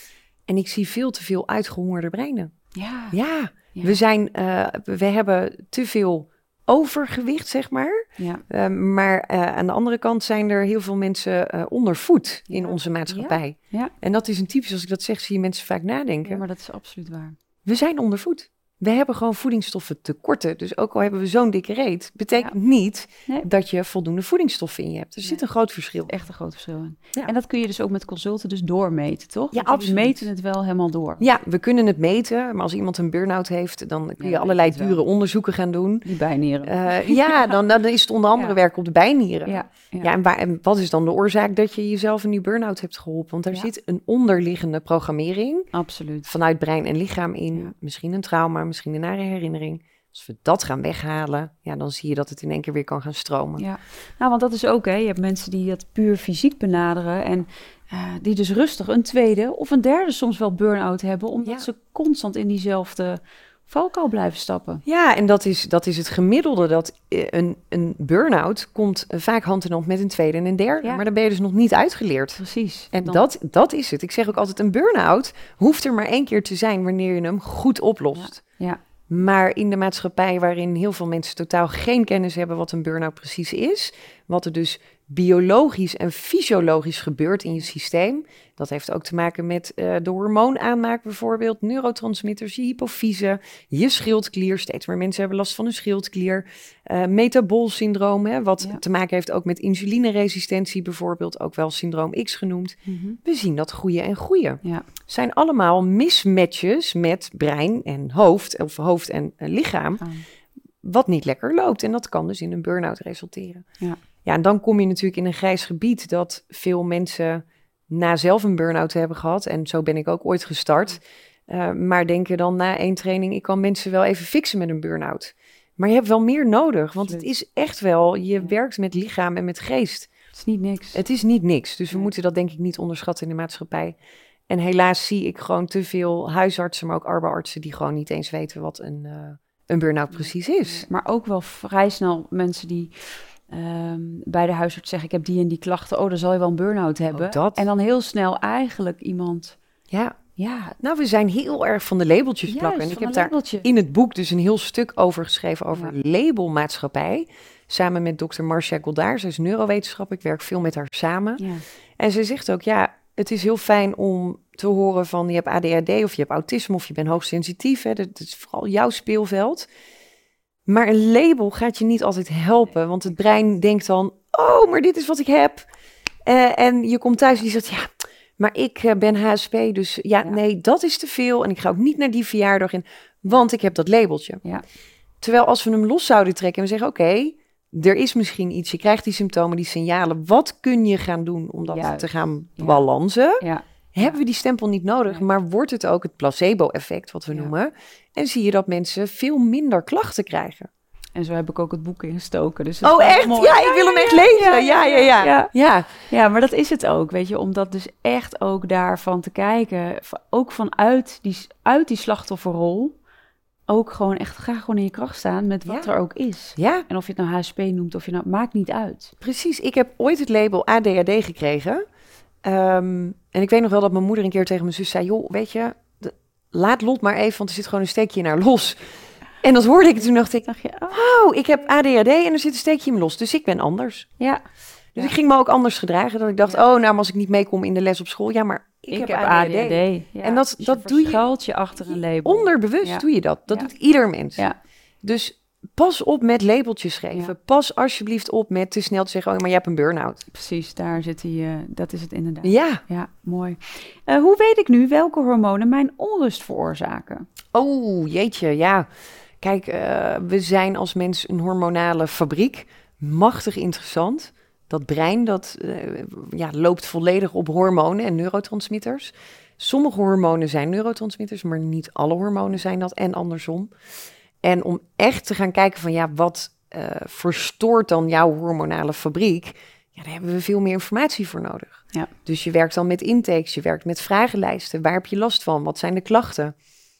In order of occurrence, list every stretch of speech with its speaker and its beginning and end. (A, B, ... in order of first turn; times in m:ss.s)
0:00.5-0:02.5 A
0:02.7-0:03.2 B
0:03.1-0:16.4 A
0:08.2-0:08.4 B
0:12.5-0:13.9 B
0:16.2-0:17.4 B
0:17.6-0:26.1 A
0:26.1-0:31.2 B
0:29.5-0:30.3 A
0:31.2-0:36.1 A
0:34.2-0:35.0 B
0:36.0-0:37.5 B
0:36.6-0:45.7 A
0:39.4-0:40.1 B
0:45.7-0:46.3 B
0:46.2-0:53.6 A
0:53.6-1:04.8 B
1:01.4-1:01.7 A
1:04.8-1:18.4 A
1:12.4-1:13.2 B
1:18.2-1:18.8 B
1:19.1-1:50.0 A
1:42.8-1:43.2 B
1:50.0-1:50.3 B
1:50.8-1:53.6 A
1:54.2-2:10.1 A
2:10.3-2:11.0 B
2:10.9-2:14.0 A
2:14.5-2:20.9 A
2:20.1-2:29.6 B
2:27.1-2:27.6 A
2:29.9-2:30.2 A
2:30.4-2:30.8 B
2:30.8-2:41.4 A
2:32.5-2:33.7 B
2:41.4-2:41.6 B
2:42.0-2:49.7 A
2:50.6-2:55.7 A
2:56.2-3:04.4 A
3:05.2-3:13.4 A
3:11.7-3:12.8 B
3:13.4-3:14.2 B
3:13.9-3:20.7 A
3:21.2-3:25.5 B
3:22.8-3:25.9 A
3:26.1-3:33.0 B
3:33.7-3:39.1 B
3:36.6-3:36.8 A
3:39.2-3:41.8 A
3:42.4-3:48.9 A
3:49.4-3:54.1 A
3:50.4-3:51.0 B
3:54.9-4:01.2 A
3:58.9-4:03.7 B
4:02.2-4:04.4 A
4:05.0-4:10.2 A
4:10.3-4:17.3 B
4:12.4-4:12.8 A
4:17.5-4:18.9 A
4:19.4-4:33.7 A
4:34.4-4:46.5 A